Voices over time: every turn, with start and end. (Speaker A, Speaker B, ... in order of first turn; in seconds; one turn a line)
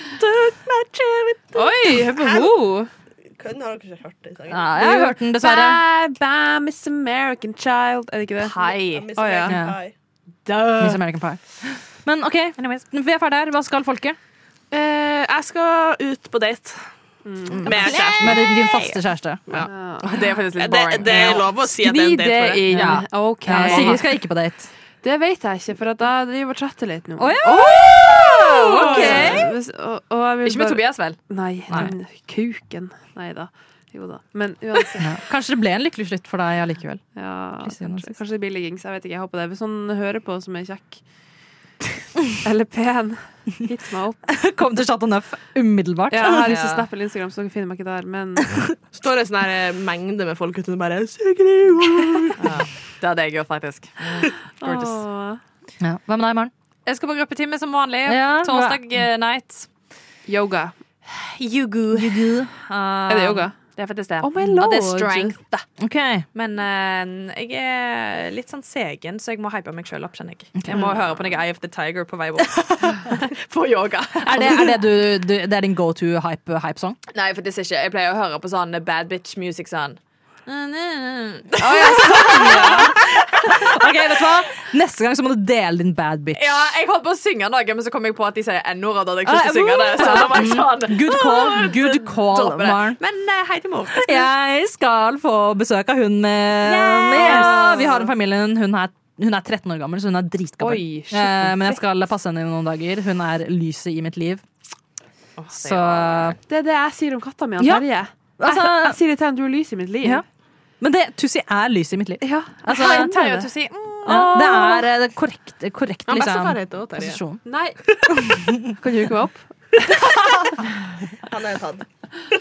Speaker A: 0.2-2.5
Speaker B: 1.6-2.9
Speaker C: 1.8-2.5
Speaker A: 3.4-4.9
Speaker D: 4.5-5.8
Speaker B: 5.0-9.6
Speaker C: 8.4-9.1
Speaker A: 8.8-9.9
Speaker D: 9.5-9.8
Speaker D: 10.8-14.2
Speaker C: 12.6-12.8
Speaker A: 14.7-16.8
Speaker B: 17.3-17.6
Speaker C: 17.5-19.0
Speaker A: 17.6-18.4
Speaker D: 18.2-19.5
Speaker B: 19.6-20.0
Speaker C: 20.0-21.6
Speaker A: 20.6-22.6
Speaker D: 21.1-21.4
Speaker B: 21.6-24.1
Speaker D: 22.7-24.7
Speaker C: 22.7-23.0
Speaker C: 23.6-24.0
Speaker B: 25.0-27.9
Speaker D: 27.2-29.5
Speaker C: 28.2-29.4
Speaker B: 28.8-35.1
Speaker A: 28.9-29.3
Speaker C: 30.4-31.2
Speaker D: 35.0-37.0
Speaker B: 37.1-41.0
Speaker D: 37.6-38.2
Speaker B: 42.4-44.2
Speaker D: 44.3-46.5
Speaker B: 46.1-48.6
Speaker C: 46.3-46.9
Speaker A: 48.9-52.6
Speaker C: 52.4-55.0
Speaker B: 54.6-55.4
Speaker D: 55.8-56.5
Speaker C: 56.9-59.7
Speaker D: 58.1-58.8
Speaker B: 60.3-60.7
Speaker C: 61.0-65.7
Speaker D: 61.9-62.5
Speaker B: 63.1-63.6
Speaker B: 64.2-65.4
Speaker D: 65.8-66.3
Speaker C: 66.3-74.8
Speaker D: 70.6-70.8
Speaker D: 74.2-77.0
Speaker C: 77.1-83.7
Speaker B: 81.6-83.0
Speaker D: 82.3-82.9
Speaker D: 83.4-86.7
Speaker C: 86.4-94.3
Speaker D: 89.2-93.0
Speaker D: 94.0-104.4
Speaker C: 96.6-98.1
Speaker B: 97.4-97.6
Speaker B: 100.6-101.8
Speaker C: 105.4-106.4
Speaker D: 105.5-106.4
Speaker B: 106.5-110.2
Speaker D: 107.6-107.8
Speaker D: 108.4-109.0
Speaker D: 110.8-113.2
Speaker B: 112.2-113.5
Speaker C: 112.7-114.8
Speaker D: 114.1-117.4
Speaker A: 116.1-117.2
Speaker B: 117.4-117.8
Speaker D: 118.3-118.7
Speaker B: 118.8-119.8
Speaker A: 121.2-121.9